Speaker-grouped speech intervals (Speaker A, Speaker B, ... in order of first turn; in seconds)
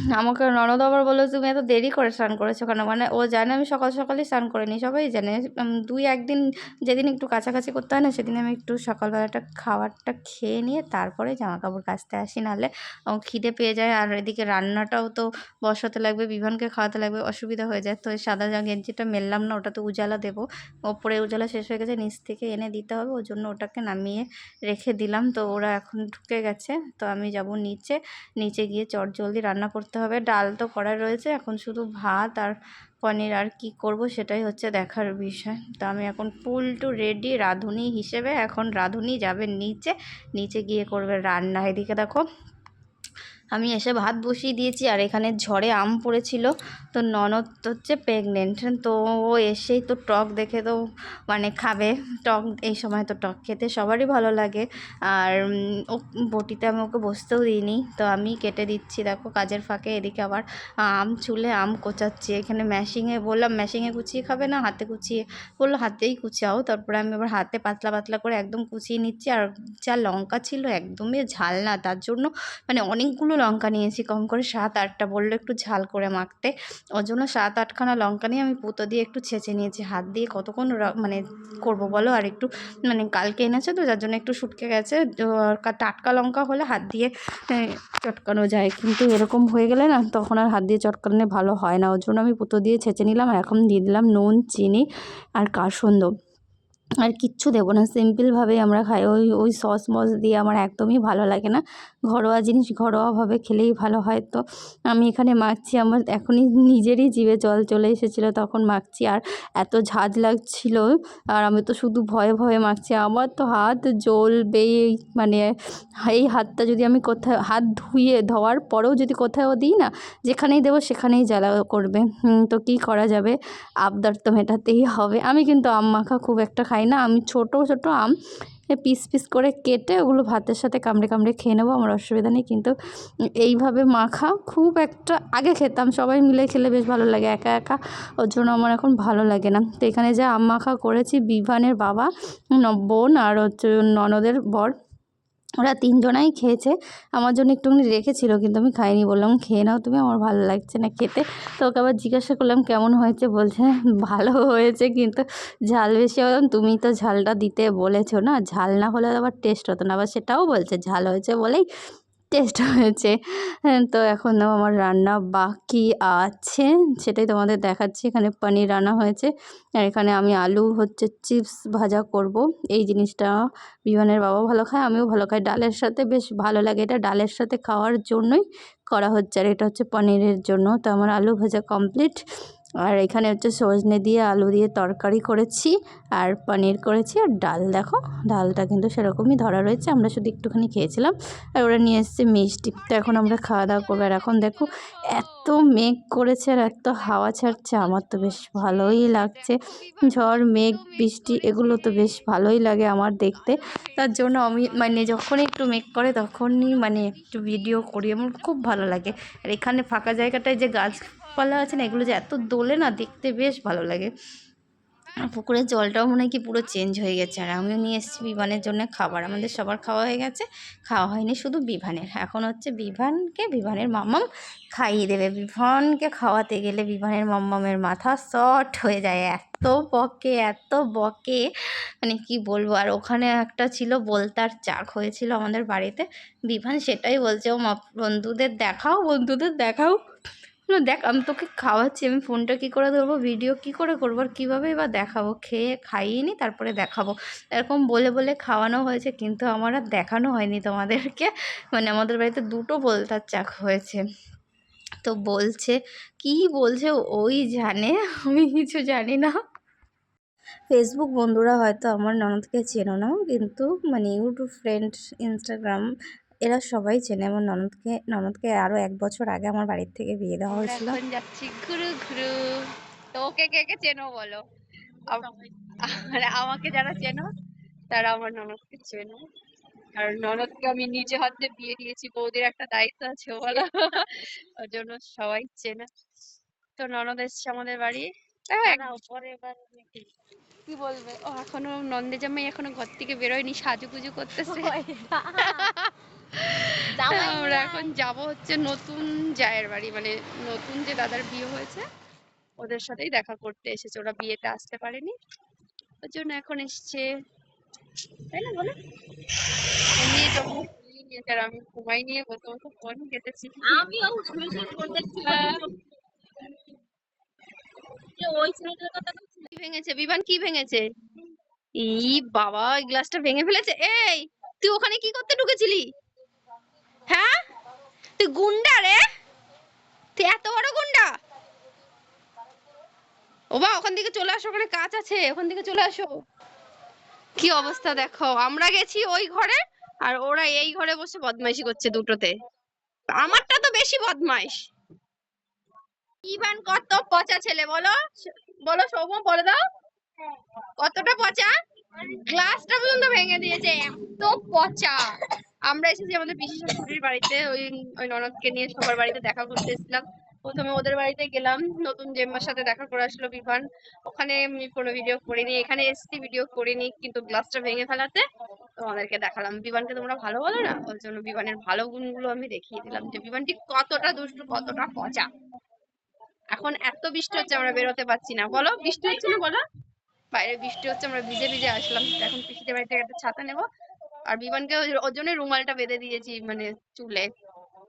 Speaker A: 0.2-42.2, 43.5-50.8, 51.3-55.4, 55.9-94.9, 95.4-96.1, 97.0-115.5, 116.1-128.1, 128.8-132.7, 133.4-144.7, 145.6-161.7, 162.3-163.2, 163.7-173.3, 173.9-182.2, 182.8-214.1, 215.3-231.4, 232.0-239.9, 240.7-254.0, 255.0-259.3, 260.7-265.9, 266.4-271.0
Speaker B: 194.1-195.1, 196.8-202.2, 206.9-207.8, 270.5-272.3, 273.1-274.4, 275.1-277.3, 277.9-279.2, 279.9-284.1, 284.6-285.9, 286.8-289.0, 290.7-294.8, 295.4-301.8, 302.6-305.1, 306.0-307.1, 308.3-308.7, 310.0-313.9, 315.2-315.6, 319.5-320.8, 321.8-325.9, 327.1-327.3, 328.2-329.0, 330.2-331.1, 333.6-336.1, 337.4-342.3, 343.2-344.7, 346.2-348.0, 348.7-349.6, 350.8-351.5, 352.1-355.0, 355.7-368.2, 368.8-375.3, 376.5-379.6, 380.3-383.6, 384.3-387.3
Speaker C: 288.7-289.8, 294.5-295.7, 297.0-297.9, 313.7-315.6, 318.2-319.0